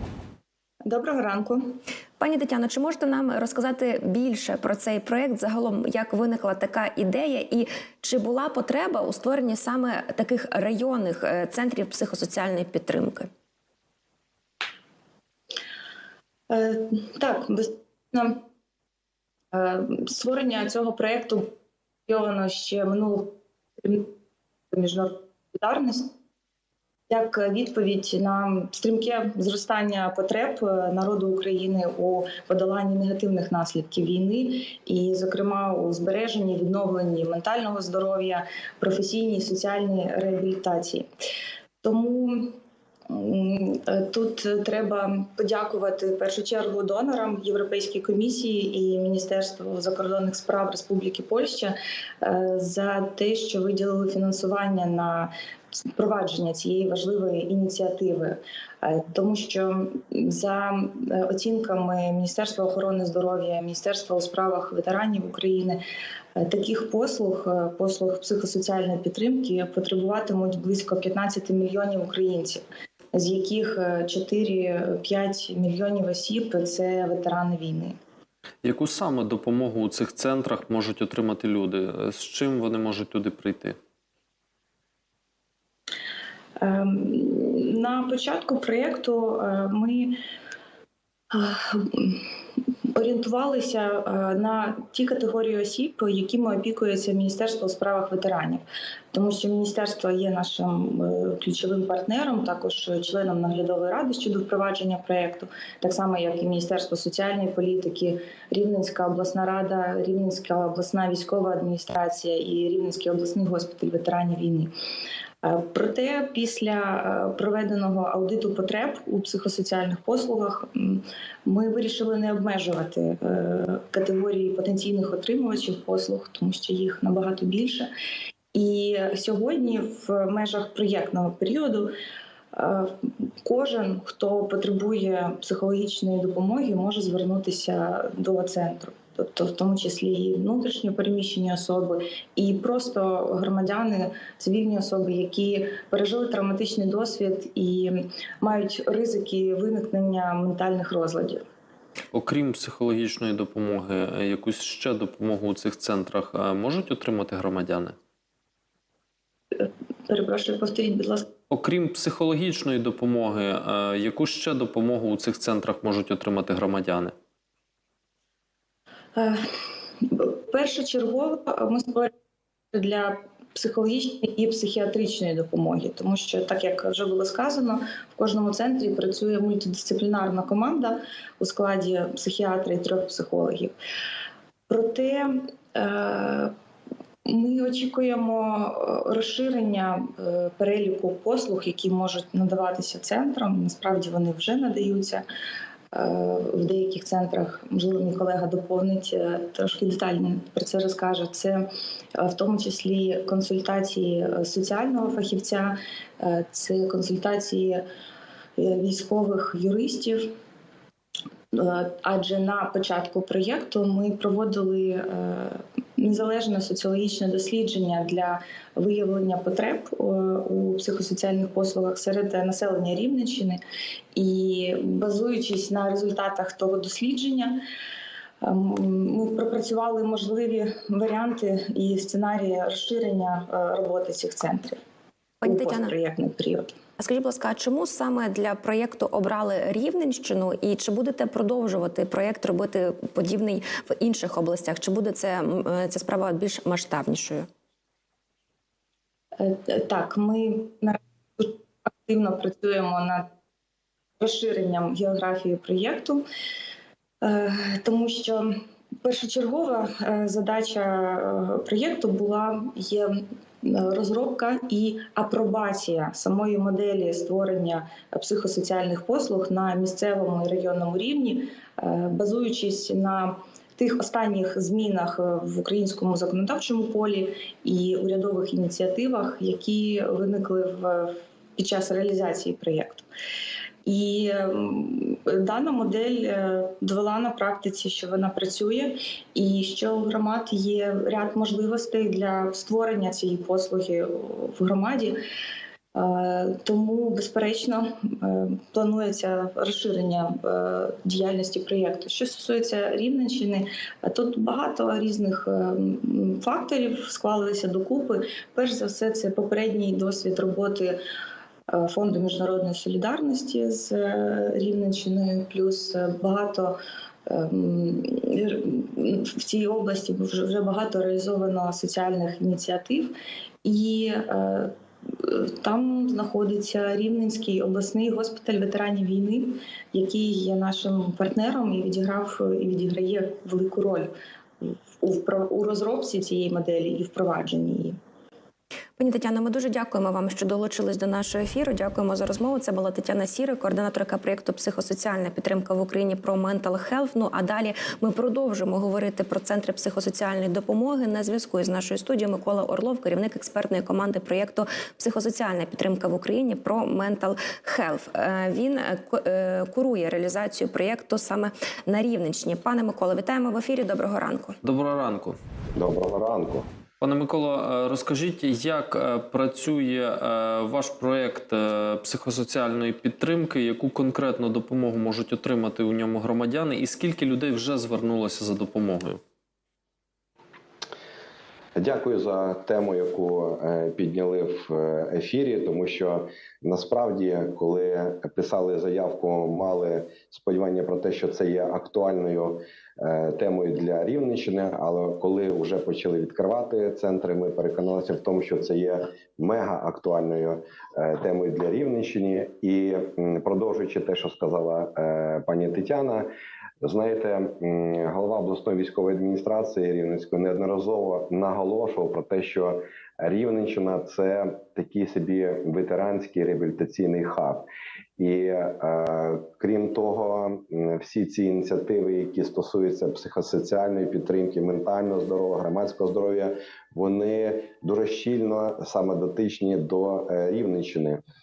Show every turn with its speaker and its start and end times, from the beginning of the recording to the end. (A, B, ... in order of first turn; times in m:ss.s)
0:00.8-0:01.6 A
0:02.2-0:13.3 B
0:16.5-0:18.4 A
0:19.5-0:21.5 A
0:22.1-0:24.1 A
0:24.7-0:26.1 A
0:27.1-0:41.1 A
0:41.8-0:42.6 A
0:43.1-0:55.3 A
0:55.9-1:05.8 A
1:06.4-1:12.6 A
1:13.1-1:18.0 A
1:18.6-1:23.8 C
1:26.6-1:30.2 A
1:31.3-1:32.2 A
1:32.9-1:54.7 A
1:55.4-2:07.9 A
2:08.5-2:11.9 A
2:12.5-2:31.4 A
2:32.1-2:37.9 C
2:39.5-2:41.3 A
2:41.5-2:47.1 C
2:49.1-2:49.4 A
2:50.0-2:52.1 A
2:52.7-3:03.7 A
3:04.7-3:06.5 A
3:07.2-3:15.2 A
3:15.9-3:27.8 A
3:28.6-3:30.3 A
3:31.5-3:43.6 A
3:44.1-3:47.6 A
3:48.4-3:54.8 A
3:55.4-3:55.9 B
3:55.4-3:56.8 A
3:57.0-4:07.5 B
4:09.4-4:13.3 A
4:14.2-4:16.2 A
4:17.2-4:18.5 A
4:19.0-4:43.0 A
4:43.8-4:55.2 A
4:55.9-5:11.0 A
5:11.7-5:23.1 A
5:23.6-5:37.9 A
5:39.0-6:04.6 B
6:04.6-6:05.4 C
6:05.8-6:06.7 D
6:07.0-6:19.2 C
6:21.8-6:46.3 D
6:46.8-6:57.6 D
6:58.2-7:11.2 D